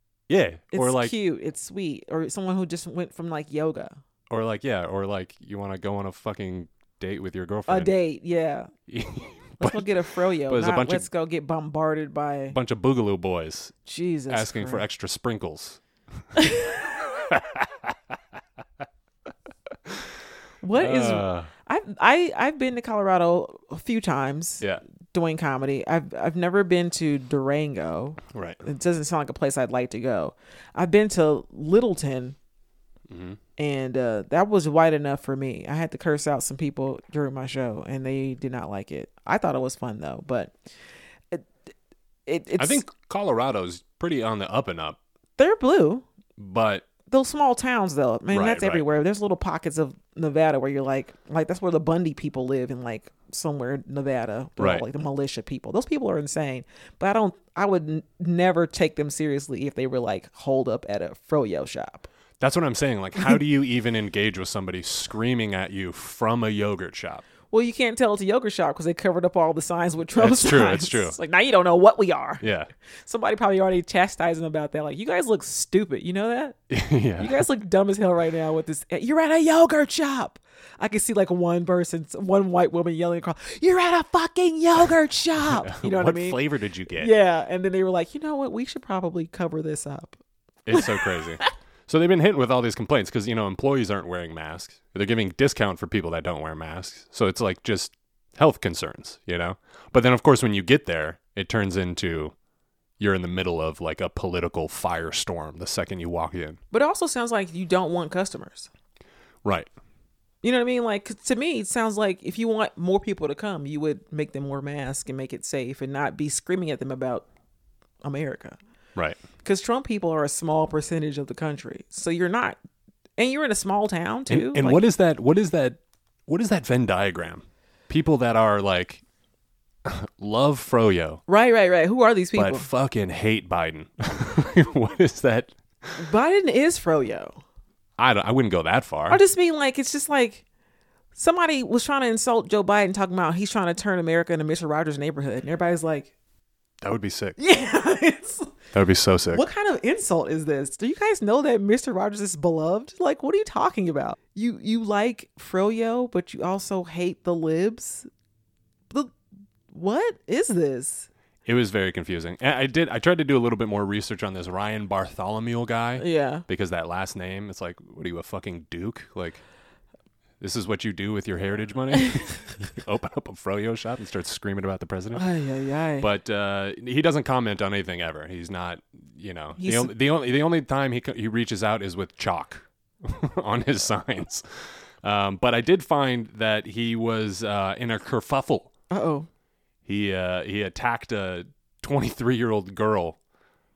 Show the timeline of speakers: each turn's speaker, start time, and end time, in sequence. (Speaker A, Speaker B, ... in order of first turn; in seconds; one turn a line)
Speaker A: 0.3-1.1
Speaker B: 0.7-4.0
Speaker A: 4.3-7.9
Speaker B: 7.7-8.7
Speaker A: 8.9-11.1
Speaker B: 9.6-12.6
Speaker A: 12.5-13.7
Speaker B: 13.8-14.8
Speaker A: 14.3-15.8
Speaker B: 16.4-16.8
Speaker A: 16.9-18.2
Speaker B: 20.6-32.4
Speaker A: 20.8-21.5
Speaker A: 28.3-28.6
Speaker A: 33.1-33.4
Speaker B: 33.6-40.6
Speaker B: 42.3-42.8
Speaker A: 42.6-45.0
Speaker B: 45.4-46.0
Speaker A: 46.4-46.9
Speaker B: 47.1-62.1
Speaker A: 48.3-48.9
Speaker A: 54.6-54.9
Speaker A: 62.4-67.2
Speaker B: 67.5-72.5
Speaker A: 70.2-71.2
Speaker A: 72.4-72.7
Speaker B: 73.0-76.6
Speaker A: 76.7-77.4
Speaker B: 77.2-90.2
Speaker A: 85.4-87.1
Speaker A: 90.7-102.3
Speaker B: 90.7-91.5
Speaker A: 103.0-106.6
Speaker B: 106.7-108.7
Speaker A: 109.4-109.7
Speaker B: 110.4-117.3
Speaker B: 118.0-118.6
Speaker B: 119.4-122.6
Speaker B: 123.2-124.8
Speaker A: 124.3-129.0
Speaker A: 129.8-131.2
Speaker B: 131.3-132.7
Speaker A: 132.3-136.0
Speaker B: 136.0-137.4
Speaker A: 138.0-139.2
Speaker B: 139.1-140.4
Speaker B: 141.2-146.1
Speaker A: 146.8-147.4
Speaker B: 147.4-148.5
Speaker A: 148.7-149.4
Speaker B: 149.3-158.1
Speaker B: 159.7-161.1
Speaker A: 161.4-169.4
Speaker B: 166.0-166.4
Speaker A: 170.4-175.2
Speaker B: 175.1-176.1
Speaker A: 176.0-188.7
Speaker B: 179.6-179.9
Speaker B: 188.9-189.3
Speaker A: 189.8-193.2